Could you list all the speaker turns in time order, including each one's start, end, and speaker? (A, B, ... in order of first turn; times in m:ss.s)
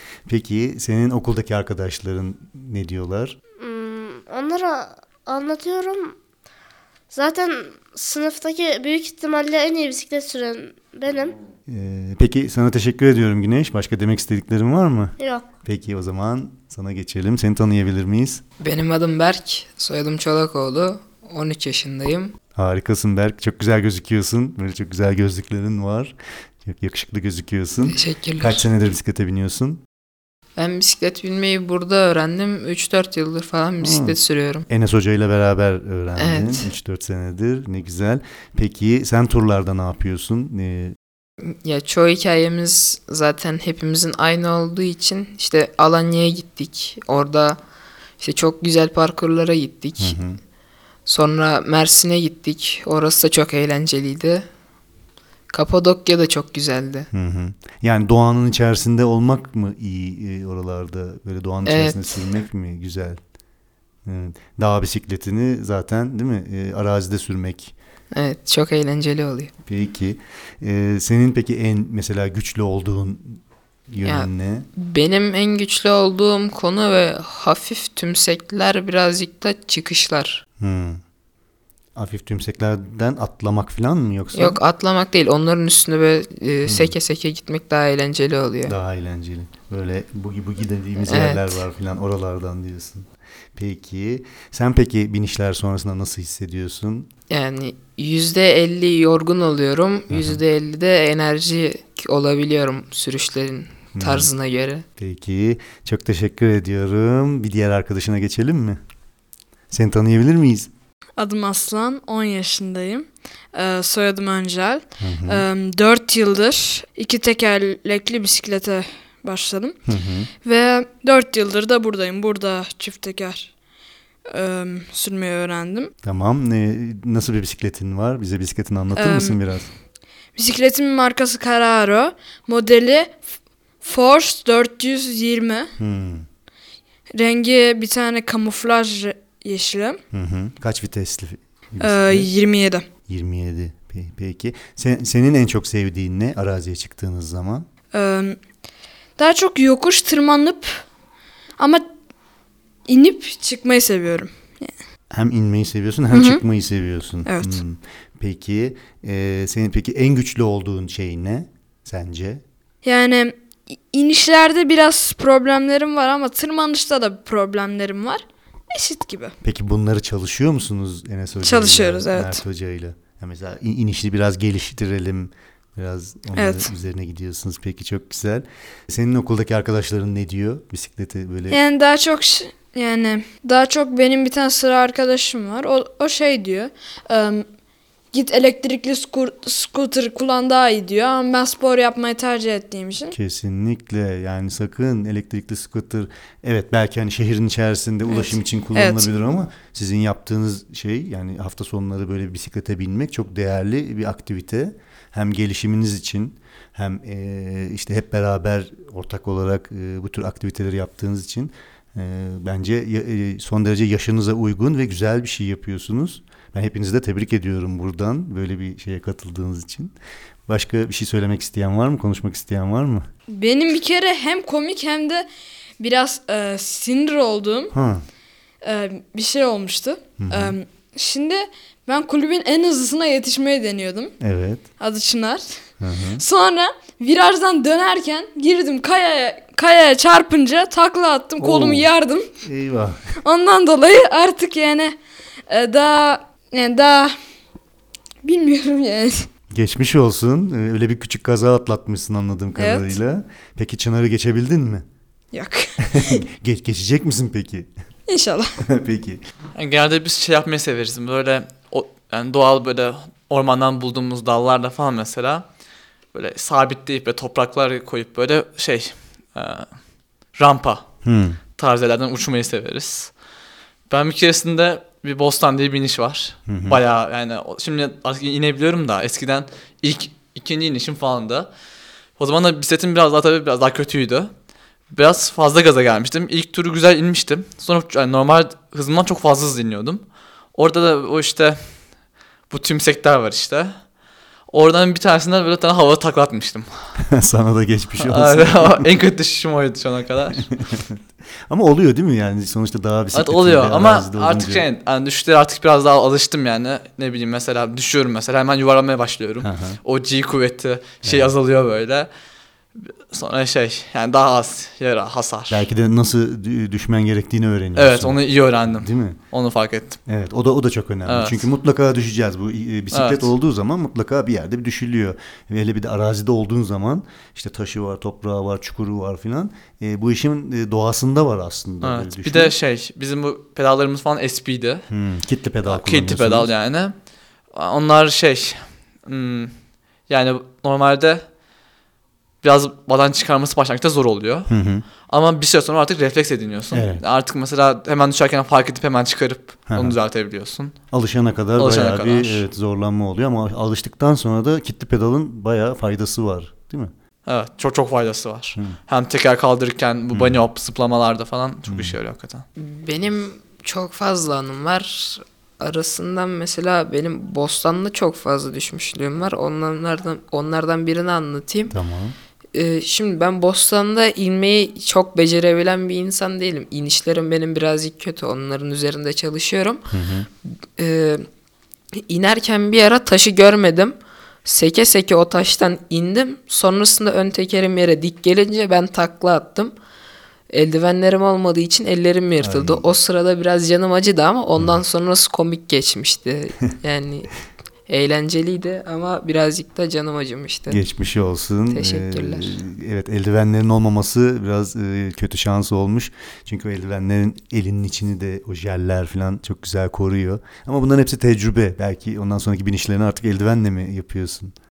0:00.3-0:03.4 A
0:03.6-0:06.2 B
0:07.1-0:11.4 B
0:11.7-0:18.4 A
0:15.2-0:15.5 B
0:18.6-0:22.3 C
0:22.5-0:29.8 A
0:27.9-0:28.6 C
0:30.6-0:34.7 C
0:33.8-0:34.2 A
0:34.7-0:41.0 A
0:36.2-0:36.7 C
0:41.4-0:47.6 C
0:48.2-0:50.2 C
0:50.0-0:50.4 A
0:51.0-0:54.4 C
0:55.5-0:57.1 C
0:57.1-1:03.2 A
1:01.6-1:02.3 C
1:04.0-1:07.7 A
1:08.1-1:09.5 C
1:09.6-1:14.7 A
1:14.0-1:20.4 C
1:20.6-1:21.0 A
1:22.0-1:24.6 A
1:24.3-1:28.7 C
1:26.6-1:26.9 A
1:28.7-1:37.1 A
1:31.0-1:31.6 C
1:37.3-1:44.8 C
1:40.1-1:40.4 A
1:44.0-1:44.3 A
1:45.0-1:48.8 A
1:49.7-1:50.7 A
1:51.2-1:59.8 D
1:55.0-1:55.5 A
1:59.8-2:00.3 A
2:00.4-2:03.5 D
2:04.3-2:05.9 D
2:06.0-2:09.7 A
2:08.9-2:09.4 D
2:10.3-2:13.2 D
2:13.8-2:15.7 D
2:15.8-2:16.3 A
2:17.2-2:20.0 D
2:20.1-2:22.3 A
2:21.8-2:22.9 D
2:23.1-2:27.7 A
2:27.9-2:28.4 D
2:29.2-2:30.8 D
2:31.6-2:31.8 D
2:32.9-2:34.7 D
2:35.1-2:42.4 A
2:36.1-2:36.4 D
2:37.2-2:37.6 D
2:42.8-2:43.4 D
2:43.9-2:49.3 D
2:49.4-3:01.6 A
2:51.4-2:52.4 D
2:56.4-2:56.7 D
3:01.5-3:07.4 D
3:08.1-3:13.1 D
3:13.1-3:39.9 A
3:18.1-3:19.1 D
3:40.5-3:43.1 A
3:43.3-3:45.2 D
3:45.8-3:47.7 D
3:47.7-3:48.0 A
3:48.6-3:54.1 D
3:50.2-3:50.6 A
3:54.2-3:54.6 A
3:54.8-3:55.5 D
3:55.8-3:56.2 A
3:56.2-4:02.3 D
4:01.4-4:01.9 A
4:02.4-4:03.0 A
4:03.2-4:04.9 D
4:05.5-4:07.1 D
4:08.2-4:09.3 D
4:09.5-4:14.8 A
4:12.6-4:12.9 D
4:15.3-4:16.2 D
4:15.9-4:17.7 A
4:18.1-4:18.6 D
4:18.6-4:19.2 A
4:19.5-4:25.4 E
4:26.1-4:29.7 E
4:30.3-4:30.8 E
4:31.0-4:31.4 A
4:31.6-4:33.1 E
4:33.9-4:41.5 E
4:36.5-4:36.8 A
4:42.2-4:44.3 E
4:44.9-4:51.9 E
4:52.5-4:53.9 E
4:54.5-4:56.9 E
4:57.0-4:58.8 A
4:58.0-5:00.5 E
5:00.5-5:00.9 A
5:01.5-5:04.6 A
5:03.1-5:12.1 E
5:09.4-5:09.8 A
5:11.0-5:11.3 A
5:13.1-5:15.6 E
5:15.5-5:19.2 A
5:17.8-5:20.0 E
5:20.1-5:32.6 A
5:21.0-5:21.4 E
5:22.9-5:23.3 E
5:31.8-5:34.8 E
5:34.9-5:36.5 A
5:35.7-5:36.9 E
5:37.5-5:39.6 E
5:40.1-5:41.2 E
5:42.4-5:44.5 E
5:44.5-5:44.8 A
5:45.0-5:50.7 E
5:46.7-5:47.0 A
5:49.7-5:50.0 A
5:50.9-5:56.9 A
5:51.6-5:52.4 E
5:57.2-6:02.4 E
6:00.1-6:00.4 A
6:01.7-6:02.0 A
6:02.6-6:11.7 C
6:11.7-6:12.2 A
6:12.5-6:19.9 C
6:19.9-6:20.3 A
6:20.8-6:21.3 C
6:21.9-6:29.7 C
6:30.5-6:37.3 C
6:32.4-6:32.9 A
6:37.9-6:40.8 C
6:40.7-6:54.5 A
6:41.7-6:42.5 C